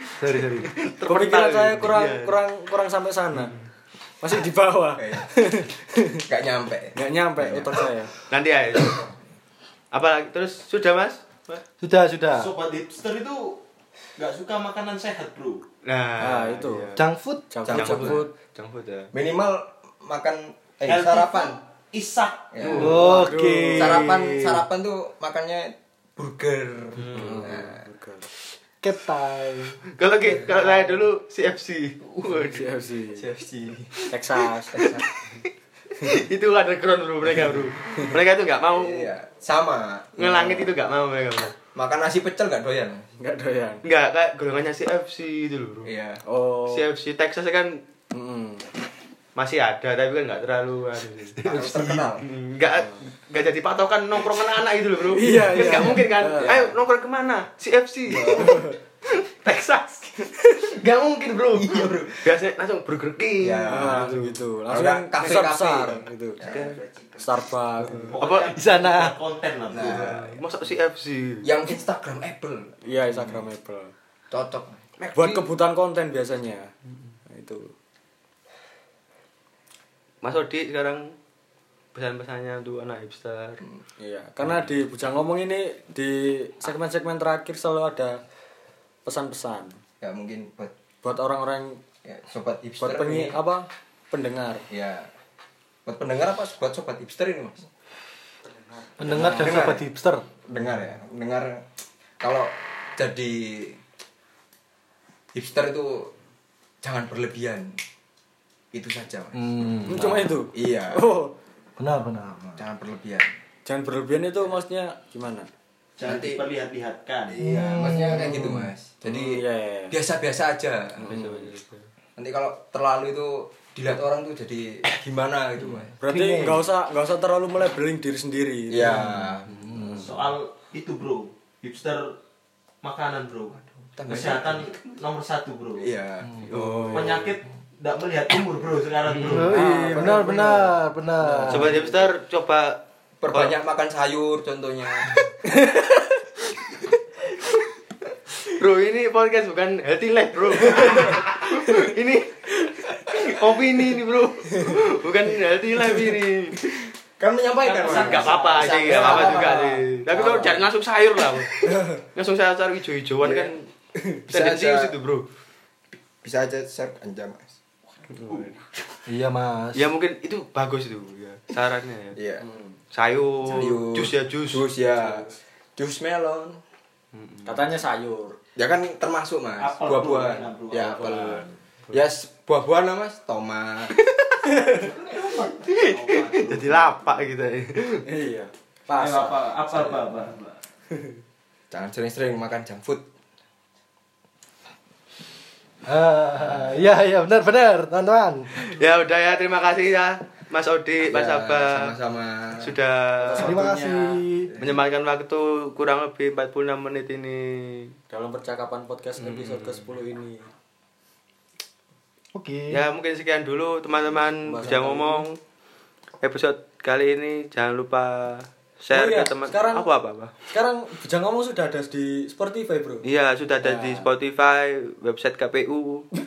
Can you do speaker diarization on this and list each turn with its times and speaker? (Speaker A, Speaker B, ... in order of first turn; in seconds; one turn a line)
Speaker A: 0.2-0.7
Speaker B: 0.4-2.4
Speaker C: 1.0-3.5
Speaker C: 4.2-6.3
Speaker D: 5.0-5.4
Speaker D: 6.3-7.9
Speaker C: 7.0-8.1
Speaker B: 8.3-9.1
Speaker B: 9.9-11.6
Speaker A: 11.8-12.5
Speaker E: 12.3-13.6
Speaker E: 14.2-15.6
Speaker B: 15.8-17.1
Speaker C: 16.2-16.9
Speaker A: 17.0-17.5
Speaker C: 17.5-18.3
Speaker D: 17.6-18.3
Speaker B: 17.7-19.1
Speaker D: 19.1-21.6
Speaker E: 20.8-22.9
Speaker D: 22.5-23.2
Speaker B: 22.6-23.1
Speaker C: 22.8-24.1
Speaker A: 22.8-24.6
Speaker D: 23.7-27.9
Speaker B: 27.0-27.6
Speaker C: 27.1-28.2
Speaker A: 28.8-29.8
Speaker B: 29.9-32.7
Speaker D: 30.3-31.1
Speaker C: 32.2-33.2
Speaker D: 33.1-34.0
Speaker C: 34.1-34.9
Speaker D: 34.7-35.1
Speaker B: 34.8-35.5
Speaker B: 36.0-39.1
Speaker D: 38.8-40.7
Speaker B: 40.2-41.5
Speaker D: 41.8-43.1
Speaker C: 43.2-43.9
Speaker B: 43.8-45.9
Speaker D: 45.8-46.2
Speaker C: 46.3-46.9
Speaker B: 46.7-47.8
Speaker C: 48.1-48.7
Speaker B: 49.4-64.3
Speaker D: 51.5-52.3
Speaker C: 55.1-56.6
Speaker D: 55.7-56.8
Speaker D: 58.1-58.6
Speaker C: 58.1-58.8
Speaker D: 61.5-62.3
Speaker D: 63.4-64.2
Speaker C: 63.7-66.4
Speaker D: 64.7-67.3
Speaker B: 65.2-65.5
Speaker B: 66.4-66.8
Speaker C: 67.2-68.2
Speaker B: 67.9-69.2
Speaker E: 68.1-70.1
Speaker D: 69.7-70.4
Speaker B: 69.8-71.5
Speaker D: 71.4-73.5
Speaker C: 72.8-73.9
Speaker D: 74.3-74.8
Speaker B: 75.0-75.5
Speaker C: 75.1-76.7
Speaker C: 77.3-77.7
Speaker B: 80.2-81.1
Speaker B: 81.9-83.6
Speaker C: 84.0-88.2
Speaker C: 89.0-89.8
Speaker D: 90.0-90.7
Speaker C: 91.0-91.8
Speaker D: 92.0-93.4
Speaker C: 92.8-94.7
Speaker D: 94.7-95.1
Speaker D: 95.8-97.7
Speaker A: 99.0-100.2
Speaker C: 99.0-99.7
Speaker D: 99.2-99.9
Speaker D: 100.5-101.7
Speaker D: 102.2-103.8
Speaker D: 105.3-106.1
Speaker D: 106.8-107.8
Speaker D: 108.7-111.1
Speaker A: 109.3-110.3
Speaker C: 109.8-111.3
Speaker A: 111.8-112.6
Speaker D: 112.6-113.3
Speaker C: 113.7-115.5
Speaker E: 116.0-117.9
Speaker D: 116.0-116.4
Speaker D: 117.4-121.1
Speaker A: 117.4-118.7
Speaker C: 119.1-120.0
Speaker C: 121.0-121.5
Speaker B: 121.0-121.9
Speaker D: 122.2-126.0
Speaker C: 126.0-129.3
Speaker A: 126.0-126.7
Speaker D: 128.7-129.5
Speaker A: 129.5-130.2
Speaker E: 130.0-132.2
Speaker E: 132.8-135.9
Speaker D: 134.0-134.7
Speaker D: 135.8-136.4
Speaker A: 136.2-136.5
Speaker B: 136.5-137.1
Speaker C: 136.5-137.3
Speaker E: 136.9-139.6
Speaker B: 139.1-139.5
Speaker A: 139.3-141.8
Speaker C: 139.4-141.8
Speaker D: 139.6-140.7
Speaker B: 141.5-143.6
Speaker D: 143.2-145.2
Speaker C: 145.4-146.1
Speaker B: 148.4-156.9
Speaker D: 157.2-160.6
Speaker B: 157.7-161.6
Speaker E: 157.7-159.3
Speaker C: 160.1-160.6
Speaker D: 161.6-162.0
Speaker B: 162.2-163.6
Speaker D: 164.2-165.0
Speaker B: 164.3-165.3
Speaker D: 166.2-167.6
Speaker B: 168.1-168.6
Speaker A: 169.1-169.9
Speaker B: 169.8-172.2
Speaker D: 172.2-172.4
Speaker C: 172.4-172.8
Speaker B: 172.9-174.7
Speaker D: 173.4-176.6
Speaker C: 175.0-175.4
Speaker B: 177.1-177.6
Speaker C: 177.4-178.4
Speaker D: 178.6-183.9
Speaker E: 179.6-181.4
Speaker C: 184.4-184.9
Speaker E: 184.7-187.3
Speaker B: 185.6-188.1
Speaker C: 188.1-189.9
Speaker E: 188.9-190.6
Speaker D: 191.7-193.1
Speaker A: 195.9-198.5
Speaker D: 196.4-196.8
Speaker B: 198.6-201.9
Speaker D: 201.0-202.7
Speaker B: 202.6-203.7
Speaker C: 203.2-204.2
Speaker A: 203.3-204.5
Speaker D: 204.5-204.8
Speaker B: 204.6-207.9
Speaker C: 208.1-210.5
Speaker B: 209.2-209.8
Speaker A: 212.3-212.8
Speaker B: 212.7-215.4
Speaker C: 214.5-215.3
Speaker B: 216.2-220.3
Speaker C: 218.9-219.9
Speaker C: 220.5-223.1
Speaker B: 223.0-226.1
Speaker C: 223.6-224.1